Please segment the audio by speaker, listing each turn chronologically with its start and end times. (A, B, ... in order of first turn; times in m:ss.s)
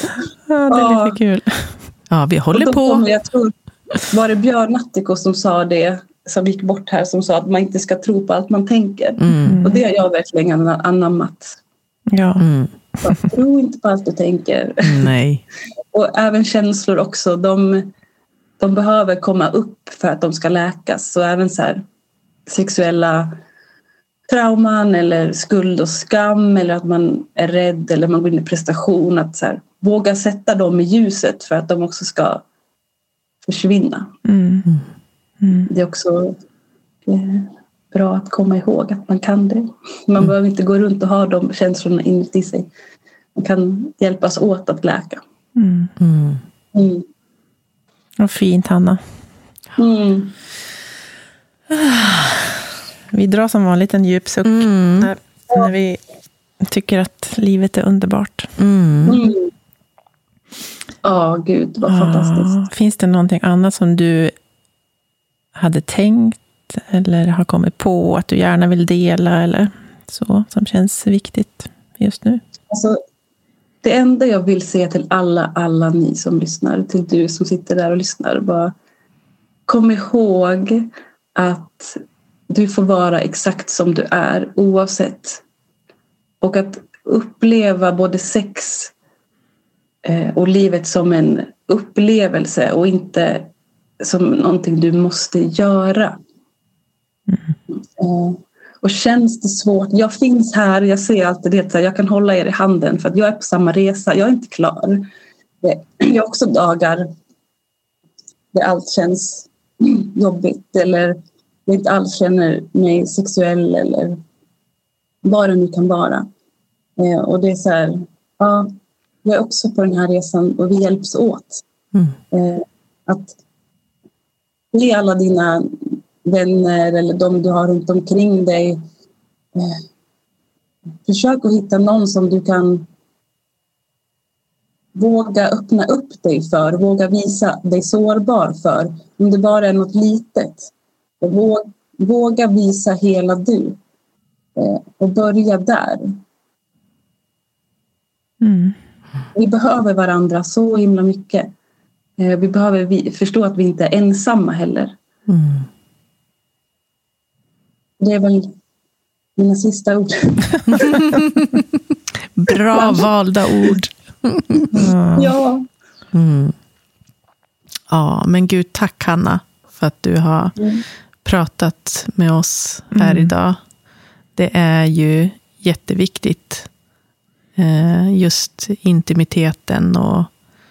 0:00.5-0:01.8 A
0:00.7-0:01.2 B
0:02.1-0:03.1 C
0:02.5-0:11.6 B
0:09.2-0:09.6 C
0:09.4-0:09.8 A
0:12.1-0:12.4 A
0:12.4-0:12.7 C
0:13.0-0:15.1 B
0:14.8-0:15.4 C
0:15.9-0:17.9 B
0:18.6-0:21.8 B
0:22.5-0:23.4 B
0:24.3-0:32.4 B
0:33.4-0:34.1 B
0:34.2-0:34.7 A
0:35.4-0:35.7 A
0:35.7-0:36.4 B
0:37.0-0:42.7 B
0:43.3-0:45.2 B
0:45.6-0:45.9 A
0:46.0-0:46.4 C
0:46.7-0:47.0 B
0:48.2-0:49.0 A
0:49.8-0:50.3 B
0:51.8-0:52.4 C
0:53.1-0:56.0 A
0:54.4-0:55.1 C
0:56.6-0:58.5 A
0:58.6-0:59.2 C
0:59.1-0:59.5 B
1:01.0-1:02.6 B
1:01.9-1:04.3 A
1:05.5-1:12.4 A
1:12.7-1:13.0 B
1:13.8-1:18.7 B
1:19.7-1:25.4 B
1:26.4-1:28.9 B
1:30.0-1:36.2 B
1:38.0-1:45.1 B
1:45.6-1:47.1 B
1:48.5-1:54.2 B
1:55.2-1:56.3 B
1:57.0-1:58.7 B
1:59.2-2:01.6 B
2:02.3-2:03.4 B
2:04.7-2:08.8 B
2:09.6-2:09.8 B
2:11.0-2:12.9 B
2:14.9-2:23.8 B
2:24.6-2:26.2 B
2:28.4-2:28.8 A
2:29.3-2:31.5 B
2:32.2-2:34.9 B
2:35.3-2:35.7 C
2:38.0-2:38.5 B
2:39.4-2:41.0 B
2:40.7-2:41.6 C
2:42.4-2:44.7 C
2:42.7-2:43.0 B
2:44.7-2:45.6 B
2:44.7-2:45.3 A
2:46.1-2:46.6 C
2:47.9-2:50.6 C
2:50.6-2:50.8 B
2:51.2-2:53.6 C
2:52.9-2:53.3 A
2:54.4-2:56.7 C
2:57.6-3:00.3 C